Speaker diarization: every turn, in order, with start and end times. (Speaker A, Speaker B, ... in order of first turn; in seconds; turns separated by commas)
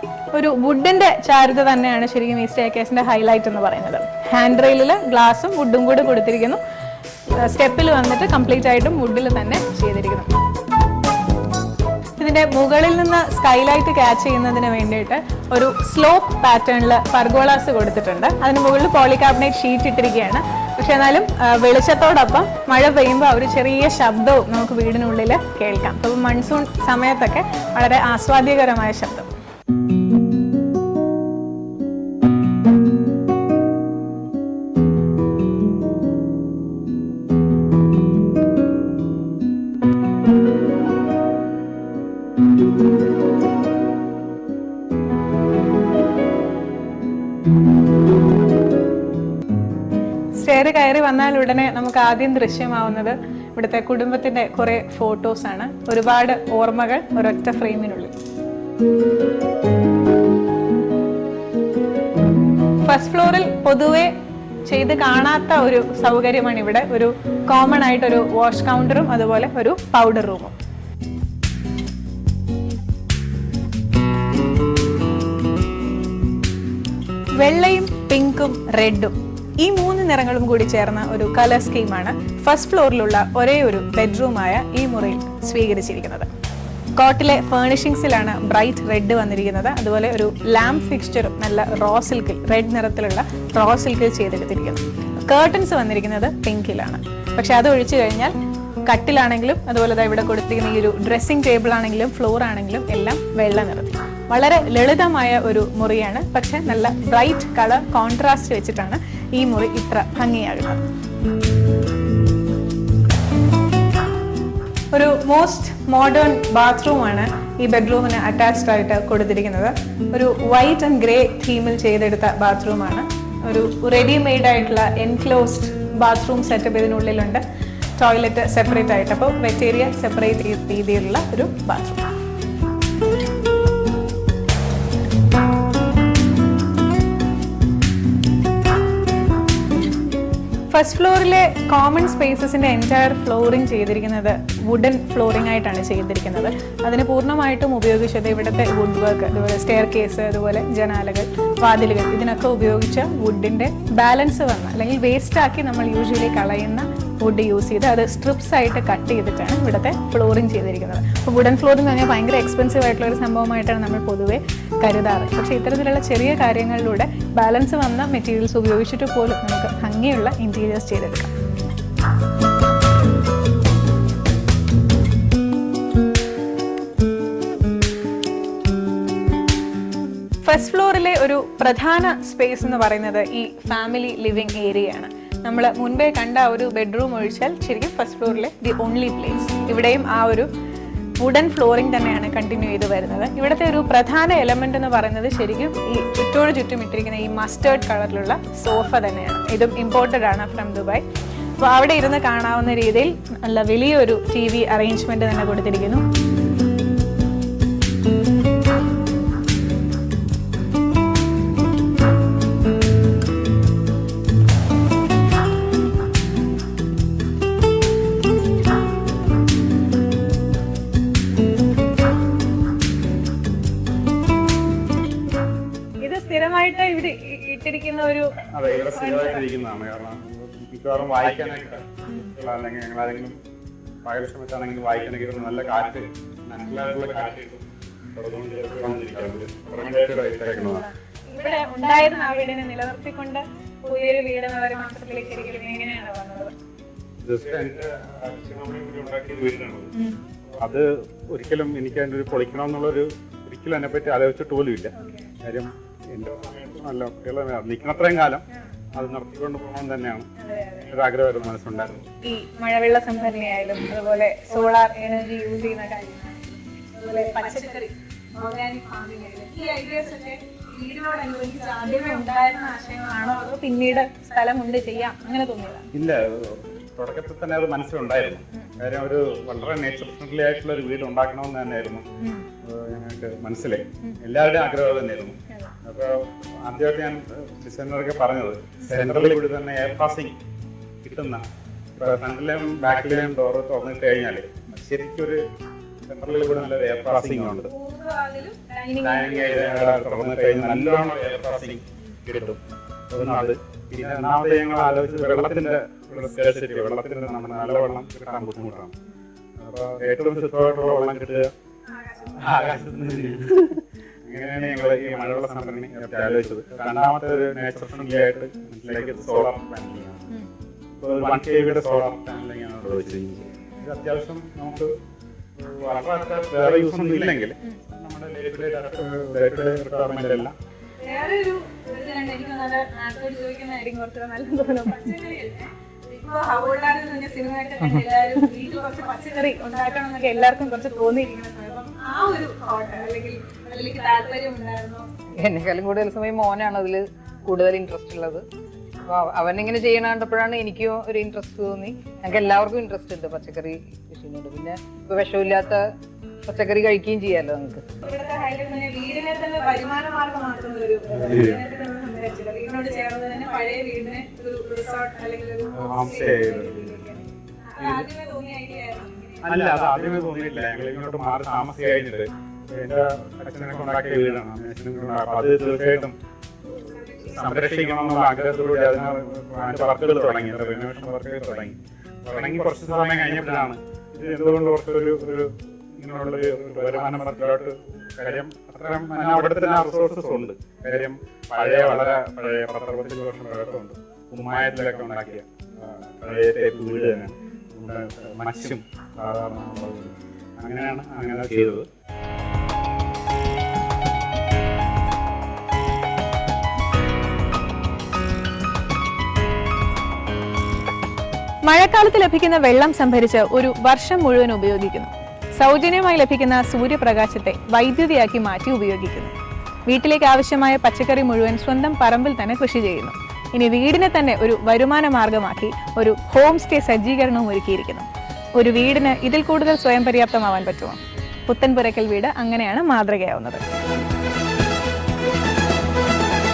Speaker A: 0.3-6.6, Speaker A: 7.3-10.3, Speaker A: 12.2-29.3, Speaker A: 50.4-58.1, Speaker A: 62.9-64.1, Speaker A: 64.7-70.5, Speaker A: 77.4-86.3, Speaker A: 87.0-98.3, Speaker A: 98.8-110.8, Speaker A: 114.9-127.4, Speaker A: 128.0-132.1, Speaker A: 140.7-171.3, Speaker A: 180.4-190.5, Speaker A: 191.2-201.0, Speaker A: 201.6-206.0, Speaker A: 226.0-228.4, Speaker B: 228.4-233.4, Speaker A: 229.0-229.4, Speaker B: 234.0-240.9, Speaker A: 241.3-246.5, Speaker B: 247.2-249.9, Speaker B: 250.5-262.1, Speaker A: 255.0-255.2, Speaker A: 260.4-260.8, Speaker A: 262.2-275.9, Speaker B: 275.9-282.1, Speaker B: 282.6-290.4, Speaker B: 291.0-291.4, Speaker B: 292.0-295.4, Speaker B: 296.1-297.7, Speaker A: 297.7-299.6, Speaker B: 299.0-308.9, Speaker B: 309.6-311.5, Speaker A: 312.0-312.4, Speaker B: 312.2-320.3, Speaker B: 320.9-324.9, Speaker B: 325.6-330.5, Speaker A: 331.0-345.1, Speaker C: 345.4-348.4, Speaker C: 349.1-355.9, Speaker C: 356.4-357.9, Speaker A: 358.0-369.6, Speaker B: 361.1-361.6, Speaker B: 365.7-367.2, Speaker B: 367.8-368.1, Speaker B: 369.4-376.1, Speaker A: 376.7-377.3, Speaker B: 377.2-401.9, Speaker A: 411.6-419.3, Speaker A: 419.9-433.6